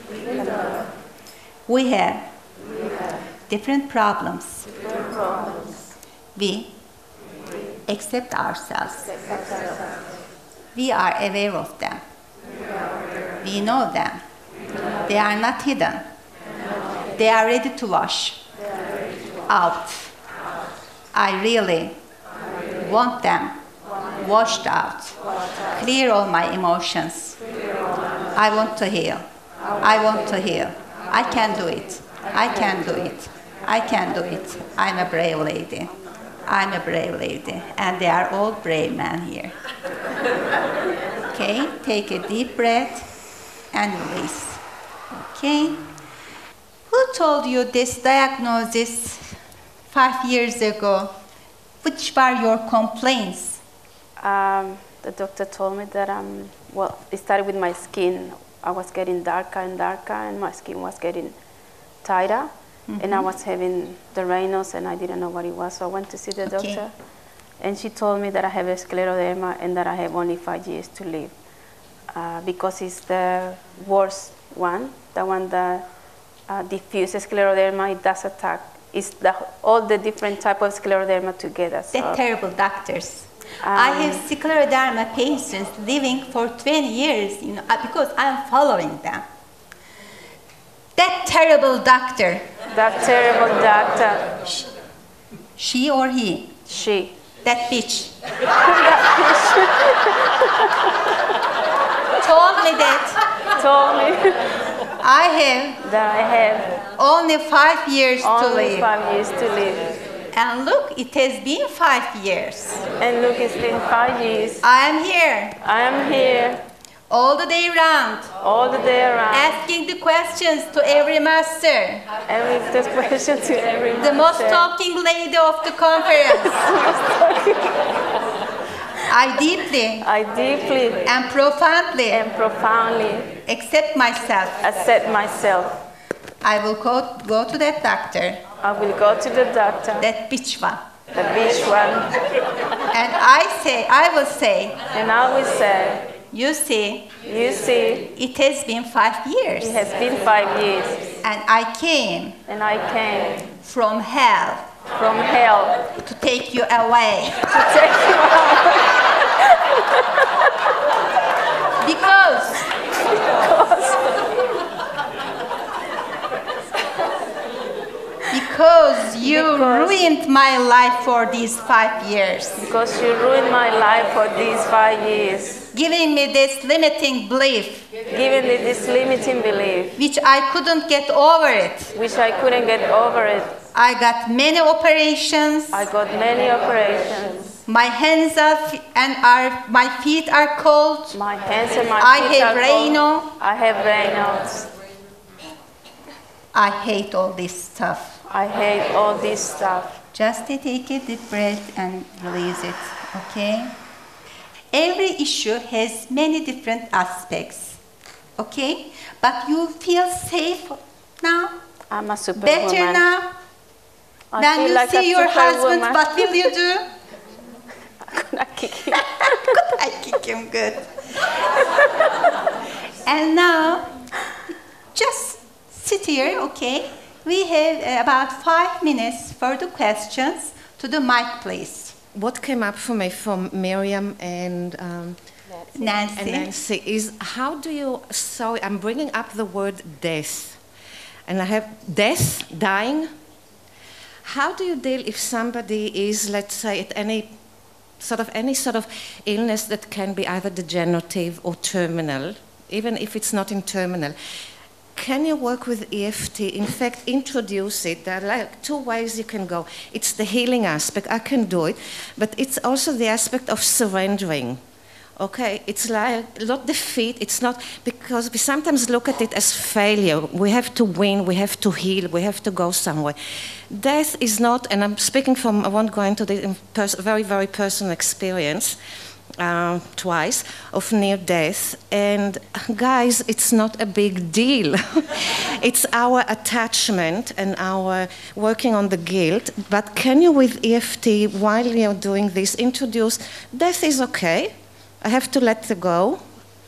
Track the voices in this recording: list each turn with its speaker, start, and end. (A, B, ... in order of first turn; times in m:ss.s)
0:00.3-0:00.8 A
0:01.7-0:02.3 B
0:03.5-0:04.7 B
0:04.9-0:05.8 A
0:06.4-0:06.8 B
0:07.9-0:09.2 B
0:09.3-0:09.8 A
0:10.7-0:12.0 B
0:13.4-0:14.2 B
0:15.0-0:16.0 B
0:17.2-0:18.4 B
0:19.5-0:20.2 B
0:21.1-0:22.0 B
0:22.8-0:23.6 B
0:24.2-0:27.4 B
0:28.4-0:29.3 B
0:29.8-0:35.9 B
0:36.5-0:39.5 B
0:41.3-0:43.1 B
0:43.7-0:45.9 B
0:46.9-0:51.1 B
0:51.8-0:53.6 B
0:54.2-1:01.4 A
1:02.0-1:07.0 A
1:02.9-1:03.3 B
1:06.5-1:06.8 B
1:07.6-1:11.3 A
1:12.1-1:15.9 A
1:16.5-1:22.2 A
1:21.9-1:29.2 B
1:23.6-1:24.2 A
1:31.0-1:32.5 B
1:32.7-1:34.6 A
1:35.6-1:36.6 B
1:36.7-1:37.2 A
1:37.4-1:38.1 B
1:38.6-1:40.7 A
1:42.2-1:43.2 B
1:43.5-1:44.6 A
1:45.0-1:45.8 B
1:45.8-1:46.8 A
1:47.0-1:48.9 B
1:48.2-1:50.0 A
1:50.3-1:52.9 B
1:53.0-1:54.7 A
1:54.6-1:55.6 B
1:55.6-1:56.6 A
1:57.1-1:58.3 B
1:58.4-1:59.6 A
1:59.3-2:02.0 B
2:02.3-2:04.7 A
2:04.0-2:06.7 B
2:06.4-2:08.0 A
2:09.1-2:10.1 B
2:10.0-2:11.2 A
2:11.0-2:12.3 B
2:12.1-2:13.4 A
2:13.5-2:14.6 B
2:14.6-2:15.8 A
2:16.4-2:18.4 B
2:18.6-2:20.1 A
2:20.0-2:20.8 B
2:21.1-2:22.2 A
2:22.9-2:24.8 B
2:24.9-2:26.1 A
2:26.3-2:27.2 B
2:27.2-2:28.1 A
2:28.1-2:29.9 B
2:29.6-2:31.2 A
2:31.2-2:32.4 B
2:32.5-2:33.5 A
2:33.6-2:34.7 B
2:34.9-2:35.9 A
2:36.0-2:37.5 B
2:37.5-2:40.5 A
2:41.8-2:42.7 B
2:43.0-2:44.2 A
2:48.3-2:52.6 B
2:49.2-2:50.2 A
2:52.6-2:55.7 A
2:55.7-2:57.9 B
2:58.1-3:00.0 A
3:00.0-3:01.9 B
3:01.9-3:03.6 A
3:03.7-3:05.9 B
3:05.7-3:07.6 A
3:07.7-3:11.2 B
3:11.1-3:14.7 A
3:12.0-3:13.3 B
3:16.5-3:18.2 B
3:18.2-3:20.0 A
3:20.1-3:23.8 B
3:24.7-3:27.8 B
3:28.4-3:31.6 B
3:31.9-3:33.1 A
3:32.4-3:33.3 B
3:34.3-3:36.5 A
3:34.4-3:36.9 B
3:38.1-3:39.7 A
3:38.9-3:40.9 B
3:43.0-3:44.0 B
3:44.9-3:52.0 B
3:52.1-3:55.3 C
3:55.7-3:56.5 B
3:56.2-4:00.6 C
4:01.3-4:03.1 C
4:04.2-4:07.3 C
4:08.0-4:14.2 C
4:15.0-4:24.6 C
4:25.2-4:33.2 C
4:33.7-4:38.8 C
4:39.4-4:56.2 C